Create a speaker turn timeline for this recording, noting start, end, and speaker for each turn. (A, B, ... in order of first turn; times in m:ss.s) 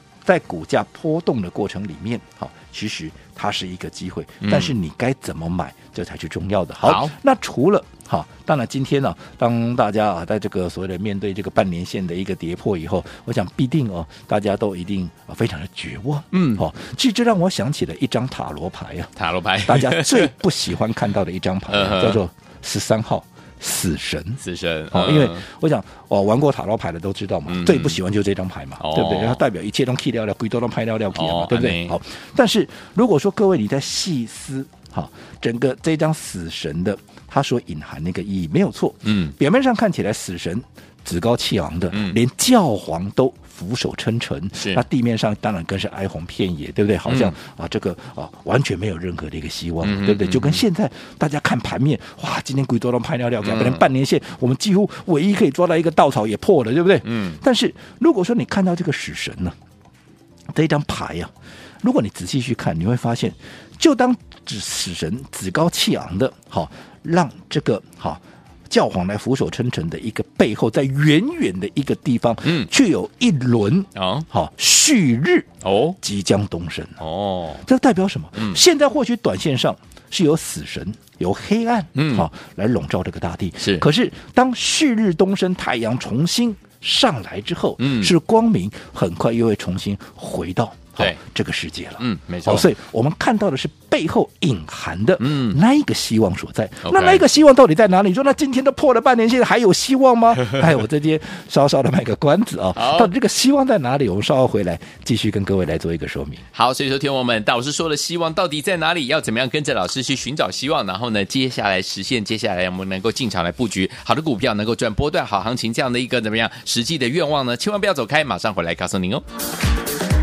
0:00.2-0:19.1 A
0:04.4-0:04.7 B
0:06.8-0:07.1 B
0:16.3-0:16.6 B
0:19.2-0:20.3 B
0:19.6-0:59.6 A
0:21.7-0:22.2 B
0:24.4-0:25.4 B
0:27.5-0:28.0 B
0:28.8-0:29.4 B
0:31.1-0:32.0 B
0:39.1-0:39.3 B
0:41.9-0:42.2 B
0:44.5-0:44.8 B
0:47.1-0:47.4 B
0:49.8-0:50.6 B
0:53.4-0:53.8 B
0:57.0-0:57.4 B
1:00.5-1:01.3 A
1:01.8-1:17.0 A
1:14.0-1:14.3 B
1:15.6-1:16.0 B
1:17.0-1:17.6 B
1:17.6-1:46.4 A
1:22.0-1:22.3 B
1:27.8-1:28.1 B
1:32.0-1:32.7 B
1:35.2-1:35.6 B
1:36.8-1:37.2 B
1:42.8-1:43.1 B
1:46.5-1:59.2 B